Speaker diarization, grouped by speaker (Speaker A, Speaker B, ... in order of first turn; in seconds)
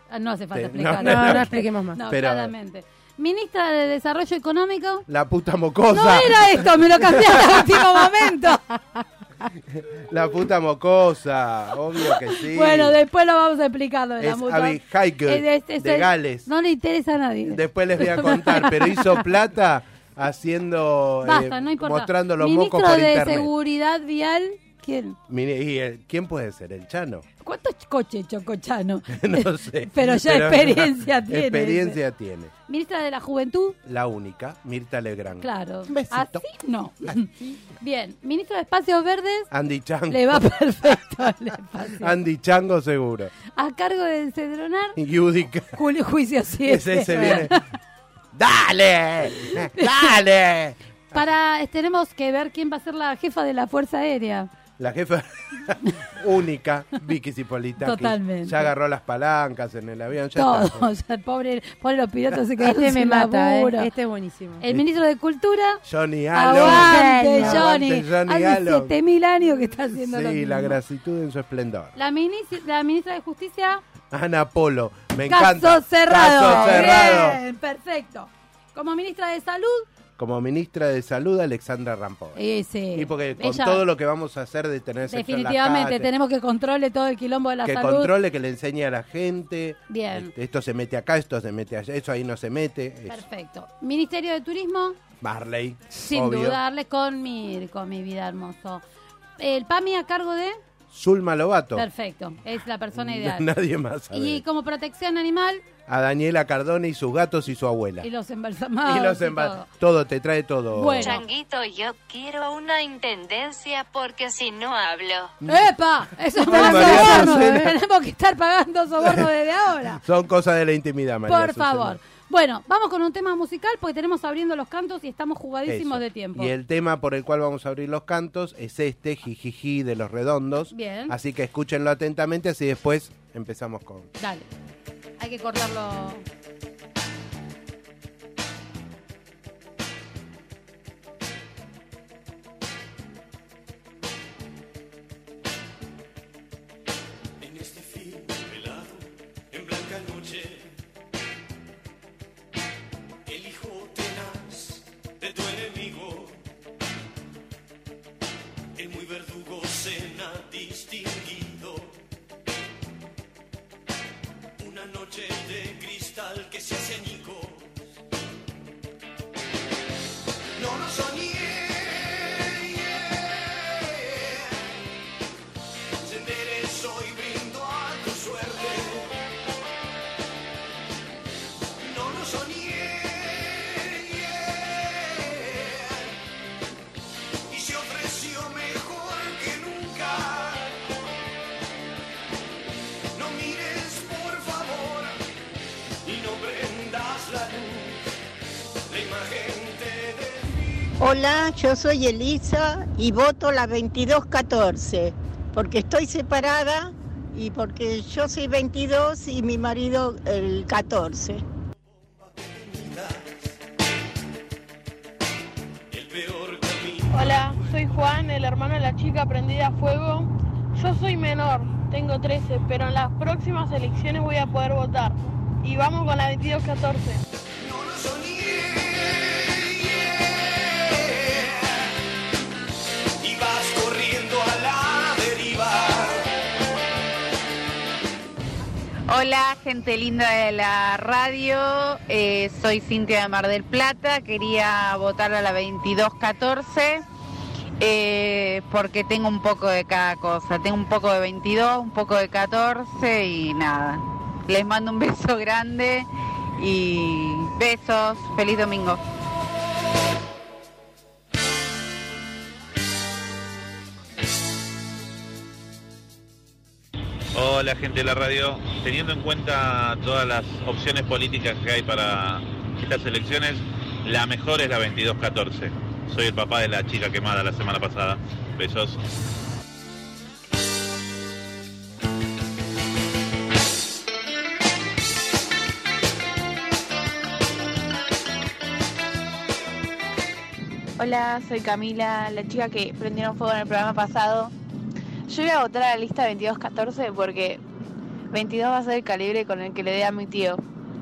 Speaker A: 0.1-5.0, 5.9-8.6, 12.4-19.1, 21.2-25.2, 27.4-32.0, 32.7-33.8, 35.4-39.5, 40.1-42.1, 43.5-45.0, 45.7-47.6, 49.7-50.1, 51.1-54.5, 57.8-58.7, 60.4-63.9, 64.6-65.8, 66.3-70.8, 71.9-73.8, 75.3-79.9, 82.3-83.8, 85.1-88.1, 89.9-90.3, 93.1-95.0, 95.9-98.8, 99.4-100.6, 101.8-103.5, 104.1-105.6, 108.0-109.7, 110.7-111.3, 115.4-120.0, 121.3-126.5, 130.7-131.1, 134.2-134.4, 135.2-136.2
Speaker B: 0.5-2.5, 5.1-7.7, 9.8-13.0, 14.2-16.5, 17.4-23.5, 25.3-27.2, 29.1-32.5, 33.8-36.4, 39.5-40.4, 42.0-43.3, 45.0-45.8, 46.6-47.5, 48.3-51.2, 54.8-60.9, 65.8-68.9, 69.9-72.0, 74.1-77.4, 80.2-82.4, 82.9-86.1, 87.6-93.2, 95.2-96.6, 100.9-101.9, 102.9-104.4, 105.9-108.1, 108.8-111.2, 116.4-117.7, 119.0-119.3, 120.0-122.0, 125.7-134.1
Speaker C: 1.0-2.0, 47.1-47.4, 62.6-64.6, 66.5-67.6, 116.4-117.7
Speaker D: 111.0-115.3
Speaker E: 147.4-150.8, 153.2-156.5, 158.8-162.0, 164.6-167.8, 170.6-174.7, 176.0-179.1, 181.8-186.2, 187.5-190.8, 193.1-195.2, 196.0-198.1, 198.9-200.7, 212.0-213.5, 215.9-218.1, 227.6-231.9, 233.2-236.3
Speaker F: 201.0-211.4
Speaker G: 217.1-227.2
Speaker H: 239.1-247.0, 247.8-259.0
Speaker I: 267.3-279.0
Speaker J: 291.0-294.5, 295.3-297.6, 298.3-300.6